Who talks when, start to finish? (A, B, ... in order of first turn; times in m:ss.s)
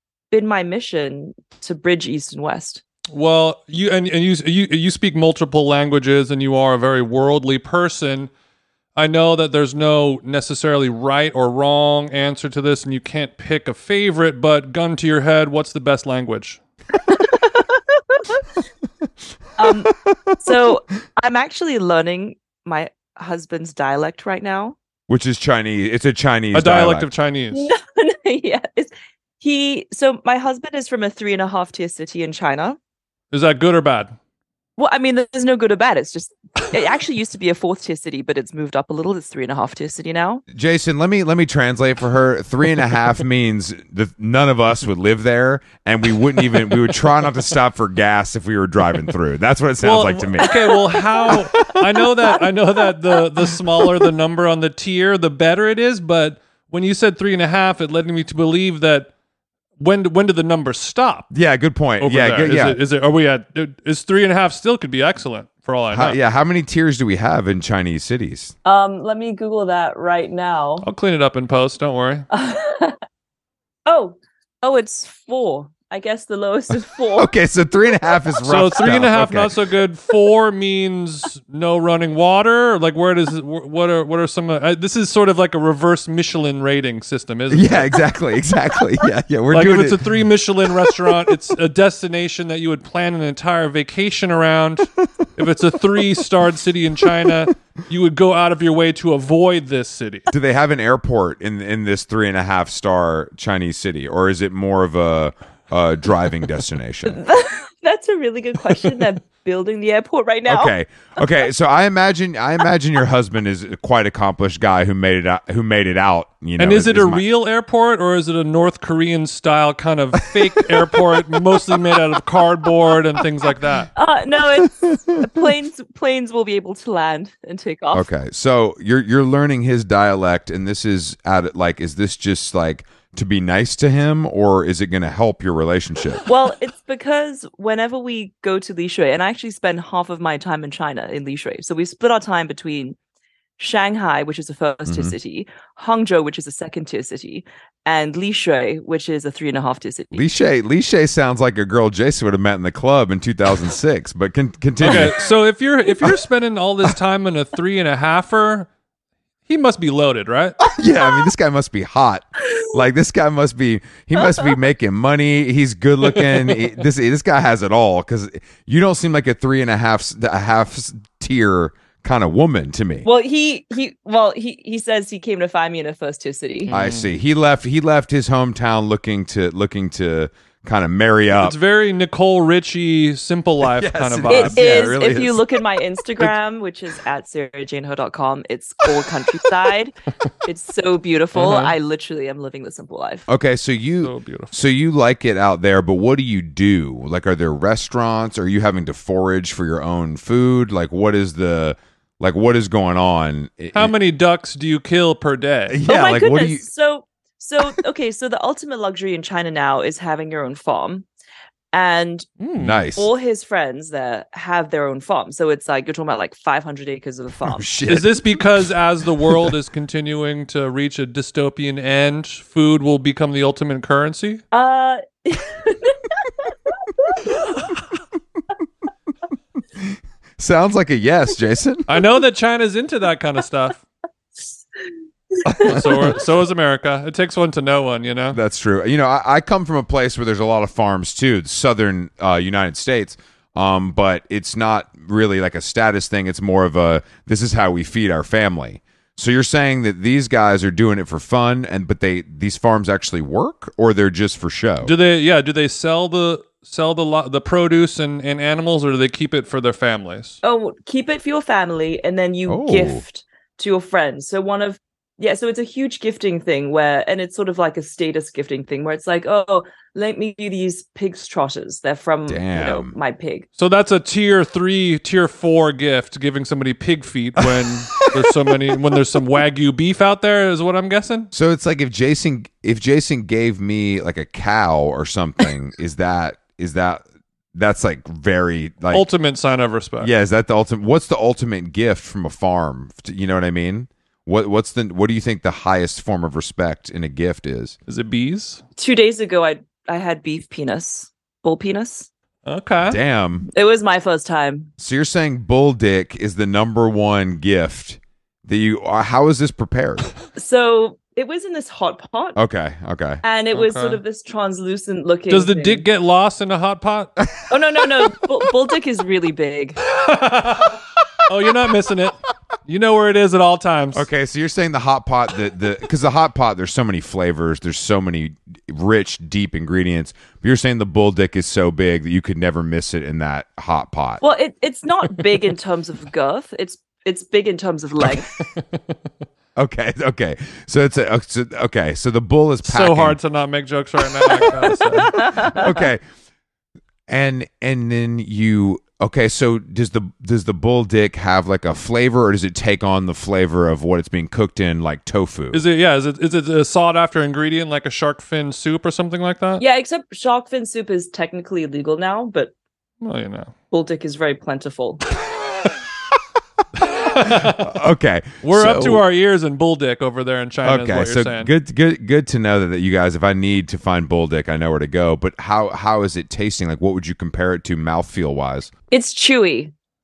0:00.3-0:02.8 A
0:03.1-0:08.3 B
0:09.0-0:16.6 B
0:17.1-0:18.5 A
0:19.6-0:24.8 A
0:25.1-0:27.1 C
0:26.5-0:27.7 B
0:27.5-0:32.8 A
0:33.3-0:34.2 B
0:34.8-0:40.4 A
0:40.5-0:51.8 C
0:49.8-0:59.1 B
0:52.3-0:53.1 A
0:59.8-1:01.3 B
1:01.3-1:02.8 C
1:02.0-1:06.2 B
1:05.9-1:08.6 C
1:08.6-1:10.9 A
1:10.8-1:12.3 B
1:12.3-1:13.0 A
1:13.9-1:17.3 A
1:17.2-1:19.6 C
1:18.5-1:28.0 B
1:27.5-1:31.4 C
1:29.5-1:40.3 B
1:37.0-1:37.3 C
1:40.3-1:47.2 C
1:47.1-1:50.7 A
1:50.5-1:57.2 C
1:56.6-2:03.9 B
2:00.4-2:02.0 C
2:04.0-2:08.1 A
2:07.9-2:16.2 C
2:16.3-2:23.0 A
2:23.6-2:30.3 A
2:24.9-2:25.1 C
2:30.1-2:35.3 C
2:34.8-2:38.7 B
2:39.5-2:40.6 B
2:40.8-2:53.1 C
2:46.1-2:46.7 B
2:53.0-2:56.7 A
2:56.7-2:57.1 B
2:56.7-3:01.6 C
3:01.3-3:04.9 B
3:03.6-3:05.6 C
3:04.3-3:13.3 A
3:11.4-3:11.8 B
3:13.3-3:23.9 C
3:14.0-3:14.6 B
3:23.7-3:25.8 B
3:25.7-3:26.6 C
3:25.9-3:31.1 A
3:31.7-3:32.3 A
3:32.4-3:32.8 B
3:32.6-3:33.1 C
3:33.0-3:37.7 A
3:37.5-3:38.7 C
3:37.9-3:44.4 B
3:39.2-3:39.6 C
3:44.5-3:46.5 A
3:47.0-3:47.5 A
3:49.8-3:52.1 C
3:51.9-3:53.8 B
3:55.6-3:58.4 B
3:55.6-3:56.1 C
3:58.3-4:14.9 C
4:14.8-4:20.4 B
4:20.4-4:33.5 A
4:22.5-4:23.0 C
4:32.3-4:33.0 C
4:33.6-4:41.3 B
4:38.0-4:38.3 C
4:41.3-4:47.0 C
4:47.6-4:49.0 C
4:48.9-4:50.1 B
4:50.0-4:57.8 C
4:57.9-4:58.6 B
4:58.8-5:02.1 A
5:02.5-5:03.0 B
5:02.8-5:03.5 C
5:03.5-5:04.7 A
5:04.8-5:10.1 C
5:10.4-5:12.4 A
5:12.4-5:13.2 C
5:13.2-5:15.8 A
5:13.5-5:14.0 B
5:15.3-5:17.1 B
5:17.5-5:19.8 A
5:19.8-5:24.1 B
5:23.9-5:34.2 C
5:34.2-5:38.3 A
5:38.5-5:39.0 B
5:39.6-5:43.2 C
5:42.6-5:45.2 B
5:44.2-5:46.0 C
5:45.1-5:45.7 A
5:47.1-5:55.6 C
5:55.5-5:59.6 B
5:59.6-6:02.5 A
6:03.0-6:03.5 B
6:03.7-6:05.0 A
6:06.8-6:07.7 B
6:07.2-6:09.0 C
6:08.4-6:11.5 B
6:10.6-6:18.7 C
6:18.9-6:19.7 A